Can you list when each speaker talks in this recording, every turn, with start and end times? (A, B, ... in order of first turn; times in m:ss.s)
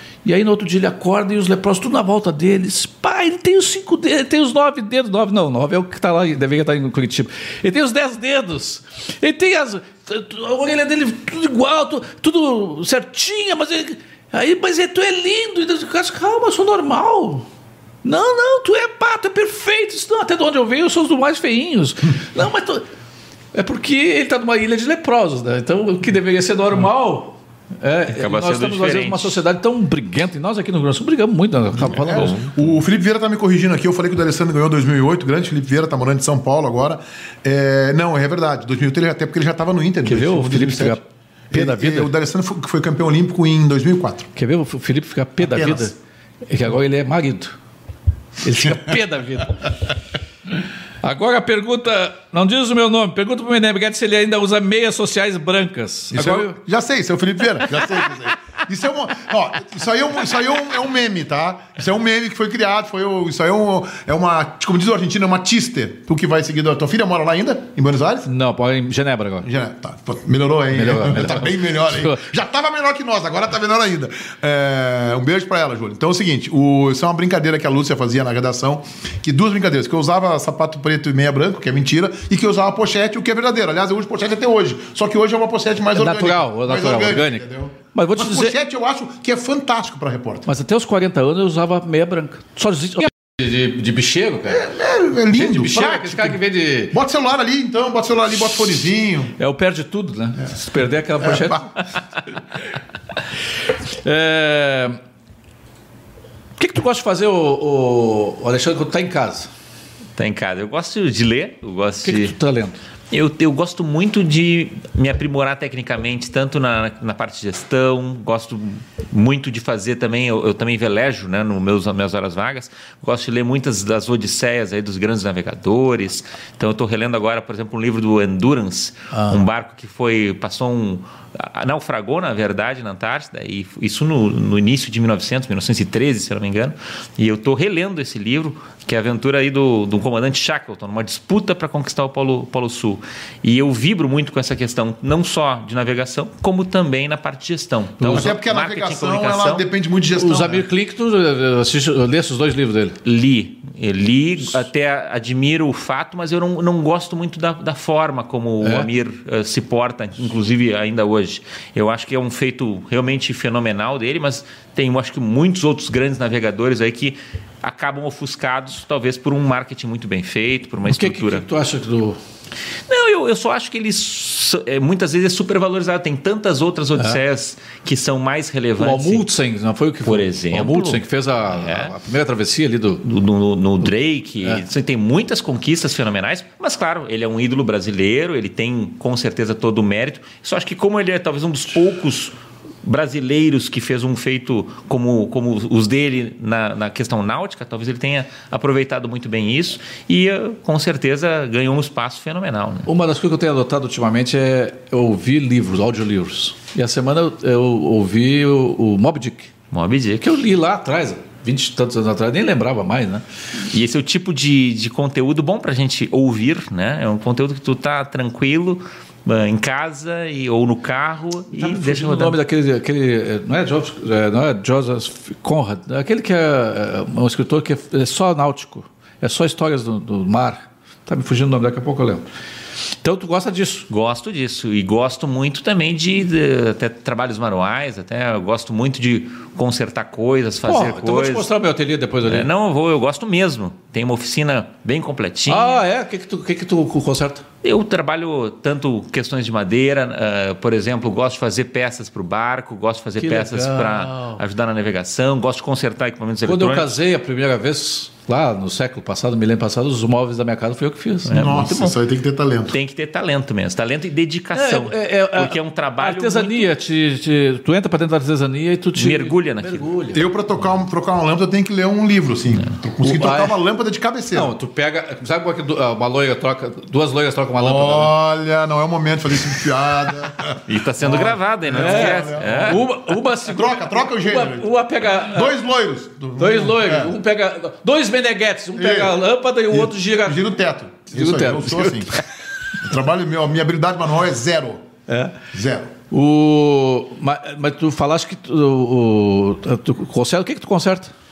0:00.2-0:17.4 A
0:18.0-0:22.8 A
0:23.5-0:32.4 A
0:28.1-0:29.4 B
0:31.8-0:44.3 C
0:32.0-0:32.6 B
0:40.0-0:42.1 A
0:44.4-0:45.9 A
0:45.4-0:45.9 C
0:46.5-0:47.6 A
0:48.4-0:49.7 A
0:51.0-0:56.6 A
0:56.1-1:08.3 C
1:08.2-1:09.5 A
1:09.4-1:30.5 C
1:10.7-1:12.2 A
1:26.0-1:28.5 A
1:30.5-1:34.7 A
1:34.5-1:36.4 C
1:35.3-1:37.0 A
1:36.9-1:39.3 C
1:39.4-1:41.7 A
1:41.2-1:41.6 C
1:44.0-1:45.0 A
1:46.6-1:49.5 A
1:50.2-1:52.3 B
1:52.0-1:52.8 A
1:53.1-2:29.6 B
2:09.1-2:09.4 A
2:28.0-2:28.3 A
2:28.1-2:30.6 C
2:30.1-2:33.0 A
2:33.0-2:51.4 B
2:38.6-2:38.9 A
2:50.8-2:52.2 A
2:52.9-2:59.2 B
2:57.0-2:57.2 A
2:58.8-3:03.0 A
3:00.0-3:01.9 B
3:03.0-3:22.9 B
3:22.9-3:29.5 A
3:29.7-3:30.3 B
3:30.2-3:33.2 A
3:33.7-3:42.4 B
3:41.5-3:52.2 A
3:53.0-3:53.9 A
3:53.9-4:01.5 B
4:00.6-4:02.5 A
4:02.2-4:05.8 B
4:05.5-4:07.4 A
4:07.6-4:16.9 B
4:13.2-4:14.4 A
4:16.4-4:21.5 A
4:21.2-4:22.0 B
4:21.3-4:22.8 C
4:22.7-4:26.7 B
4:24.5-4:30.2 A
4:29.0-4:29.9 B
4:30.1-4:34.5 C
4:33.0-4:33.6 A
4:34.3-4:38.1 A
4:37.6-4:42.9 C
4:40.7-4:42.8 B
4:41.7-4:45.5 A
4:43.4-4:44.7 C
4:45.2-4:47.1 C
4:46.4-4:50.4 A
4:48.8-4:49.2 C
4:49.7-4:52.2 C
4:51.1-4:52.2 A
4:52.8-4:54.8 C
4:55.1-4:55.4 A
4:55.5-4:55.9 C
4:56.1-5:01.1 A